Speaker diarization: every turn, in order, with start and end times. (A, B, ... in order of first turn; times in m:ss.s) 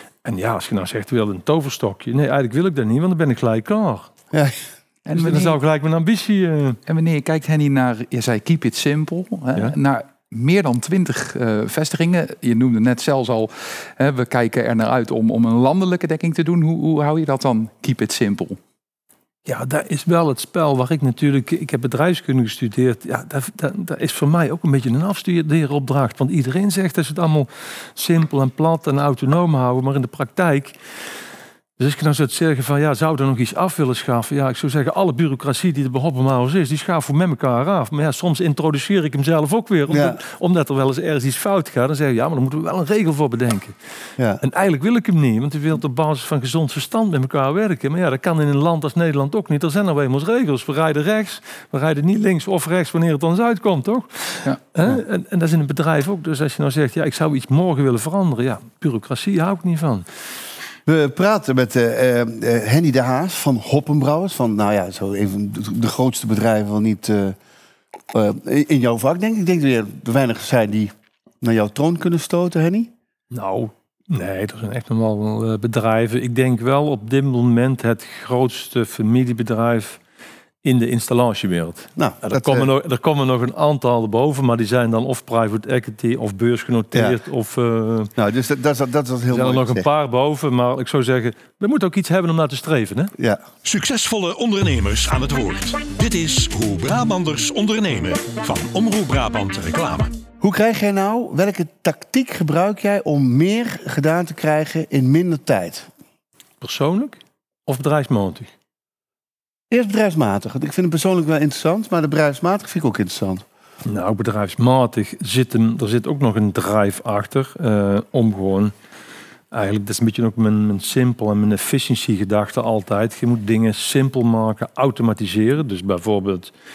0:00.2-0:04.1 A
0:04.3-0:04.6 B
0:05.0-0:05.6 C
0:05.1-0:06.8 A
0:06.9-0:18.6 C
0:19.5-0:30.8 A
0:31.8-0:43.8 A
0:39.9-0:40.2 B
0:44.4-1:00.0 A
1:00.9-1:07.4 B
1:08.1-1:12.9 B
1:13.3-1:20.0 A
1:20.6-1:28.1 A
1:22.0-1:22.7 B
1:28.2-1:29.9 B
1:29.3-1:33.1 A
1:33.2-1:33.4 B
1:33.6-1:40.1 D
1:40.4-1:45.9 B
1:46.6-1:48.5 A
1:49.7-1:53.4 B
1:53.8-1:58.7 A
1:59.5-2:06.5 A